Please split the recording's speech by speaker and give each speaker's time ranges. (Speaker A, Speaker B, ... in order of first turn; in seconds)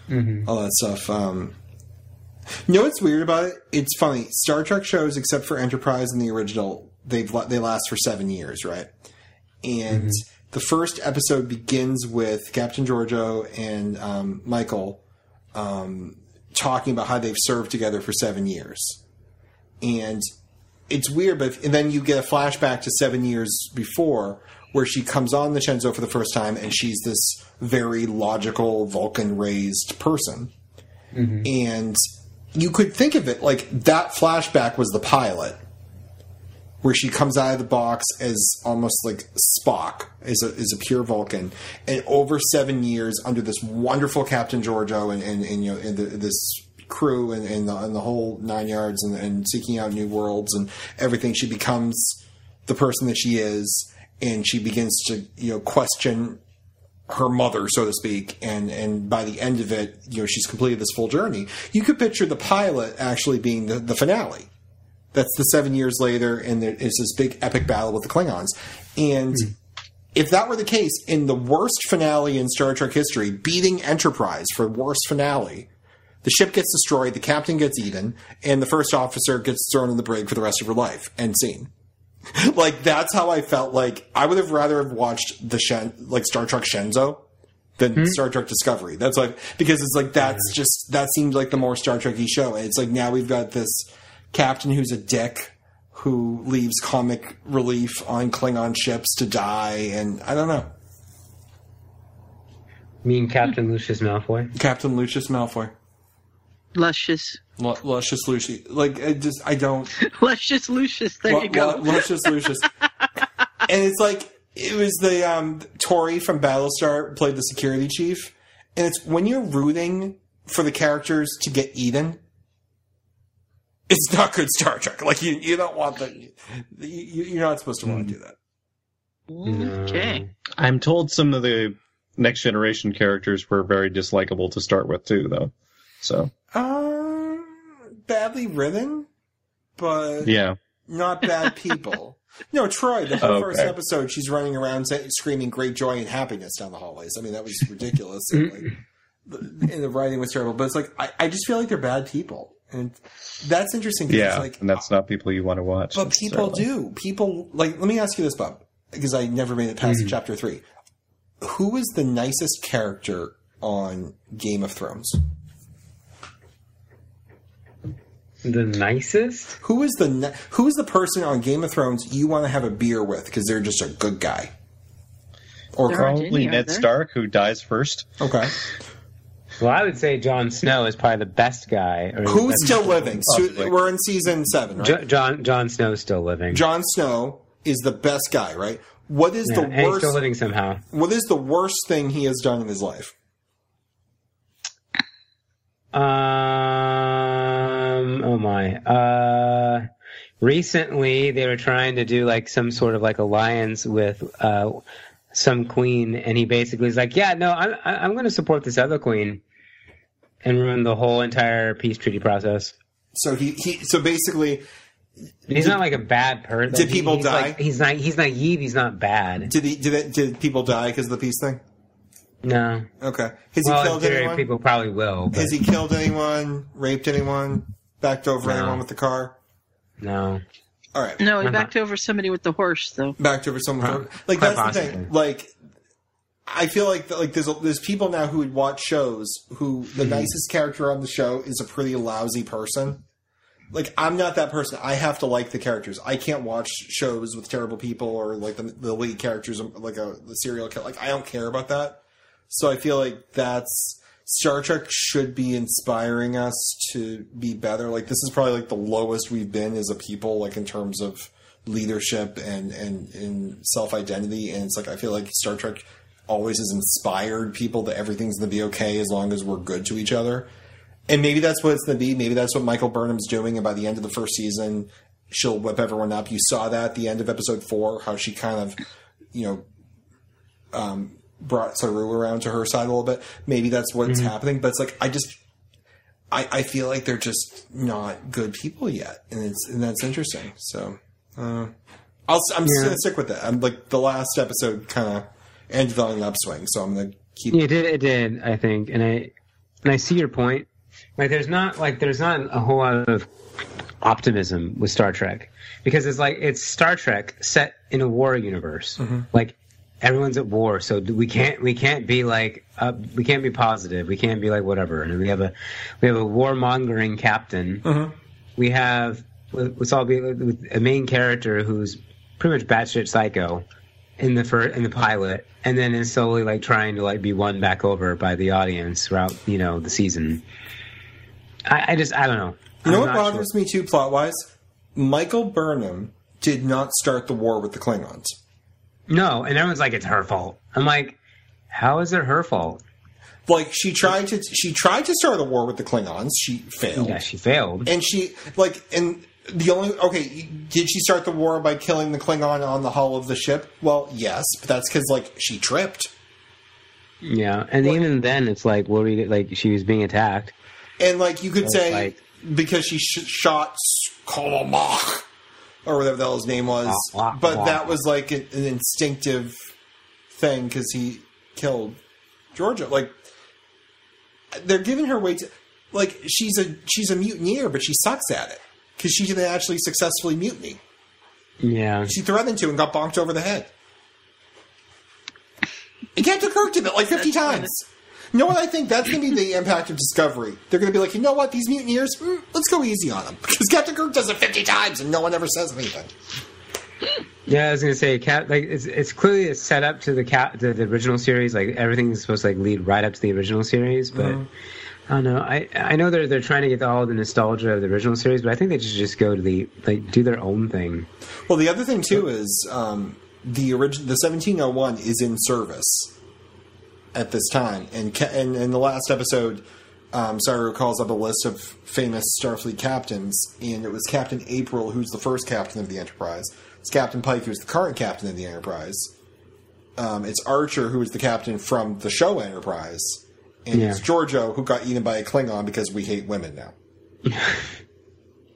Speaker A: 0.1-0.5, 9.9-10.2, 31.1-31.5, 103.0-104.5, 129.5-130.3, 159.8-160.1, 168.4-169.6, 179.6-183.2, 184.8-186.6, 189.5-190.8, 195.9-199.9, 200.4-209.4, 210.4-212.7, 215.5-219.5, 222.4-222.9, 223.6-225.6, 228.4-228.8, 230.0-230.4, 231.4-231.7, 233.8-235.1, 240.0-240.3, 284.1-284.3, 292.7-293.0, 297.5-299.3, 299.8-303.3, 304.0-317.9, 318.6-323.6, 324.2-330.4, 331.7-333.5, 339.1-341.2, 341.7-342.8, 346.9-347.9, 357.2-360.5, 361.6-362.2, 366.9-367.9, 381.6-382.1, 397.5-404.4, 405.1-411.1, 433.7-434.0, 437.3-437.6
Speaker B: 0.5-1.6, 2.7-8.9, 9.6-15.0, 15.5-19.0, 19.8-20.2, 20.9-30.5, 31.4-32.0, 32.5-35.6, 36.8-56.4, 57.1-64.5, 65.1-69.5, 70.1-75.7, 76.2-81.7, 82.3-87.2, 87.8-100.7, 104.5-105.7, 107.6-109.9, 111.3-112.7, 113.7-122.2, 123.9-128.4, 136.5-139.1, 139.8-148.7, 149.3-154.6, 155.9-160.7, 161.4-165.2, 169.6-174.5, 175.8-176.1, 178.2-178.6, 182.2-185.0, 186.5-190.2, 190.9-193.1, 213.1-214.7, 215.5-215.8, 216.7-217.6, 219.5-221.6, 223.0-224.5, 225.3-229.4, 230.9-231.2, 233.2-235.5, 236.5-243.0, 243.7-270.5, 271.1-278.8, 279.3-279.7, 280.7-285.4, 286.3-291.8, 292.3-297.7, 309.0-309.3, 317.9-318.1, 332.8-338.4, 343.5-347.2, 347.9-356.1, 361.0-365.3, 365.9-369.7, 370.3-372.0, 372.5-373.2, 374.5-380.8, 382.1-383.7, 386.1-396.1, 404.1-404.5, 411.5-416.1, 417.1-429.1, 430.0-436.8
Speaker C: 106.8-107.4, 110.0-112.4, 129.3-130.2, 175.9-176.9, 231.2-233.2
Speaker D: 130.6-136.3, 140.2-140.6, 143.2-143.7, 154.1-156.6, 175.9-178.1, 183.3-183.7